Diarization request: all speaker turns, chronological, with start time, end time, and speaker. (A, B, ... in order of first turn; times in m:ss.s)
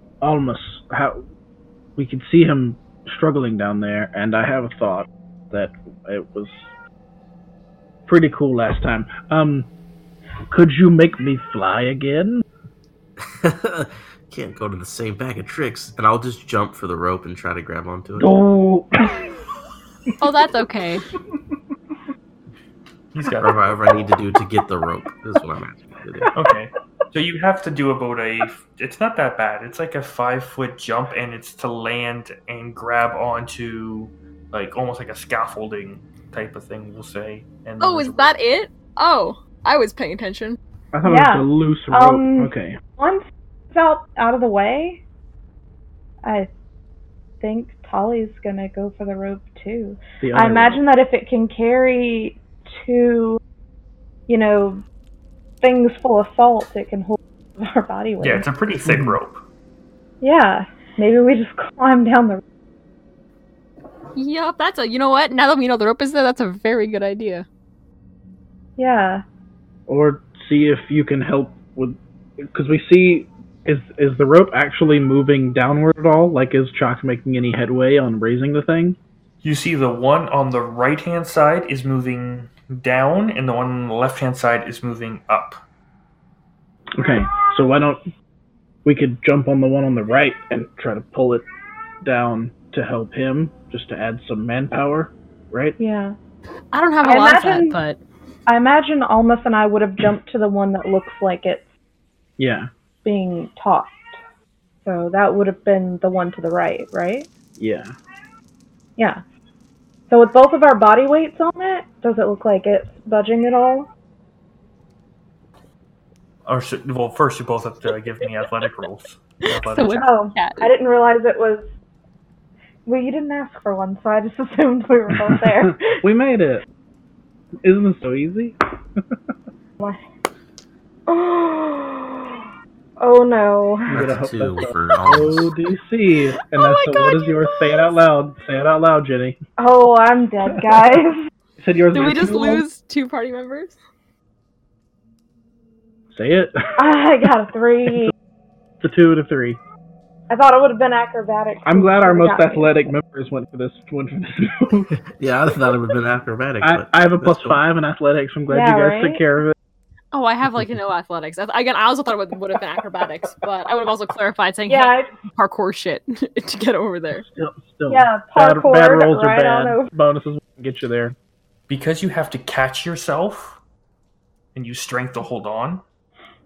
0:00.2-0:01.2 A
0:02.0-0:06.7 A
0:08.1-0:09.7 A
0:10.5-0:12.4 A
0:13.3-0:18.3 B
0:18.2-0:19.3 A
0:20.2-0:21.0 C
0:23.1-0:23.8 D
0:23.4-0:26.3 B
0:26.3-0:38.3 D
0:37.8-0:40.6 C
0:40.9-0:42.8 A
0:41.0-0:45.0 E
0:46.2-0:46.5 E
0:47.4-0:53.4 E
0:50.2-0:50.8 A
0:54.3-0:54.8 E
0:55.6-0:58.4 E
0:58.2-0:59.4 D
0:58.8-0:59.2 A
1:00.2-1:02.4 E
1:04.1-1:07.4 C
1:08.8-1:09.2 E
1:09.9-1:19.0 A
1:19.4-1:25.6 D
1:27.0-1:28.0 A
1:28.8-1:31.4 A
1:32.0-1:35.8 A
1:35.8-1:36.2 E
1:36.7-1:38.0 C
1:37.0-1:37.8 E
1:38.5-1:41.6 E
1:42.4-1:42.7 A
1:43.0-1:44.1 E
1:44.8-1:47.3 E
1:47.6-1:47.9 A
1:49.0-1:49.2 E
1:50.1-1:53.9 E
1:56.4-2:00.1 D
1:59.5-2:00.7 C
1:59.9-2:01.7 E
2:02.9-2:06.0 E
2:05.3-2:06.6 A
2:07.6-2:09.0 A
2:11.1-2:12.4 E
2:13.0-2:14.0 E
2:13.9-2:19.4 A
2:13.9-2:15.5 B
2:16.5-2:18.0 C
2:19.6-2:21.2 E
2:21.6-2:22.6 A
2:21.9-2:23.8 C
2:26.1-2:26.9 A
2:26.8-2:28.1 E
2:27.9-2:28.1 A
2:28.8-2:29.6 A
2:30.3-2:32.8 E
2:31.6-2:34.9 A
2:34.9-2:37.6 B
2:36.6-2:39.5 A
2:38.5-2:39.2 E
2:40.1-2:47.2 C
2:44.7-2:45.1 E
2:47.3-2:51.2 A
2:47.9-2:49.9 E
2:51.7-2:53.6 D
2:54.5-2:55.8 D